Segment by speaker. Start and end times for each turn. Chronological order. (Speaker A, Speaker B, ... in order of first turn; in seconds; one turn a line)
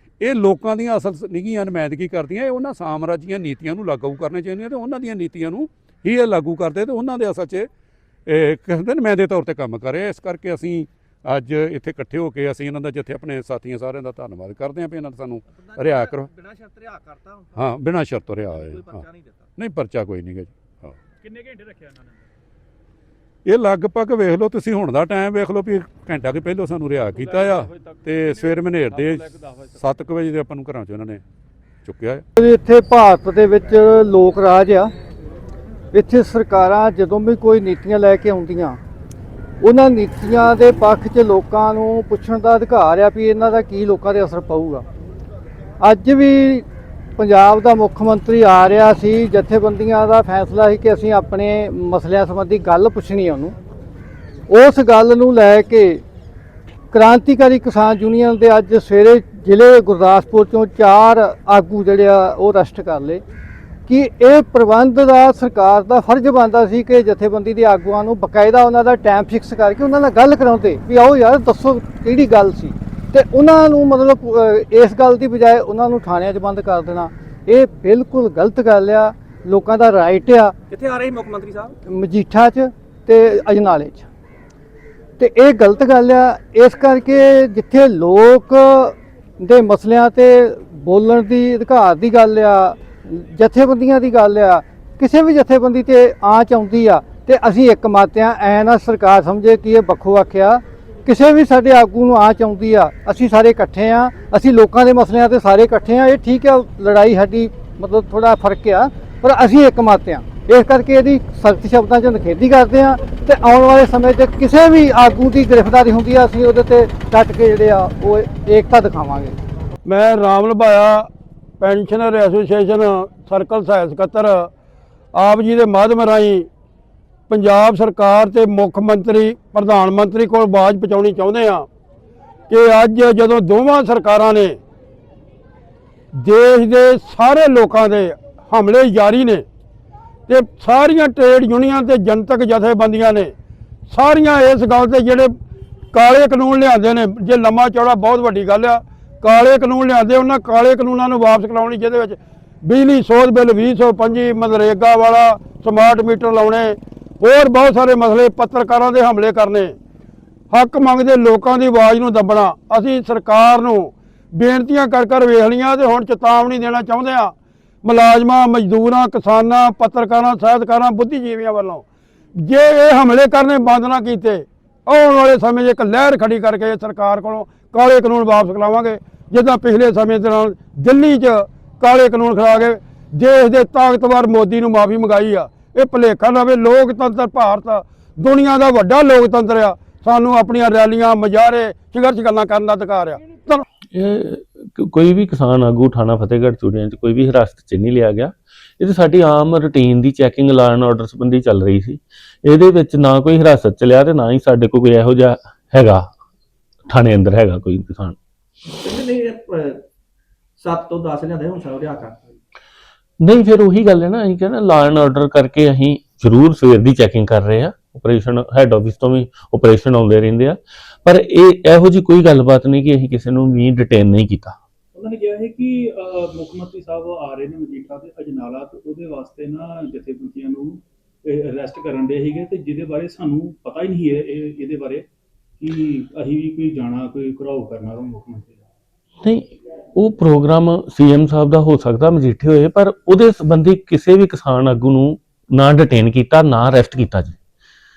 Speaker A: 0.2-7.7
Speaker A: 8.3-16.3
Speaker B: 15.6-17.5
Speaker A: 17.6-19.0
Speaker B: 18.5-19.4
Speaker A: 19.6-21.0
Speaker A: 23.5-31.2
Speaker A: 31.8-32.2
Speaker C: 32.4-34.9
Speaker C: 35.9-38.8
Speaker C: 39.6-44.9
Speaker C: 45.8-46.7
Speaker C: 47.2-53.6
Speaker C: 54.5-56.0
Speaker C: 56.9-63.2
Speaker C: 63.9-80.5
Speaker B: 80.7-81.8
Speaker C: 81.9-84.1
Speaker C: 85.2-119.4
Speaker D: 119.8-121.1
Speaker D: 121.6-124.5
Speaker D: 125.1-126.5
Speaker D: 127.3-131.7
Speaker D: 132.5-134.6
Speaker D: 136.2-139.4
Speaker D: 140.3-143.3
Speaker D: 143.9-145.3
Speaker D: 145.9-159.8
Speaker D: 160.5-171.8
Speaker D: 172.4-193.6
Speaker E: 193.9-206.1
Speaker E: 206.9-208.2
Speaker B: 208.7-209.8
Speaker B: 210.6-212.2
Speaker E: 213.2-224.6
Speaker F: 224.9-235.1
Speaker F: 235.6-238.6
Speaker E: 239.2-247.4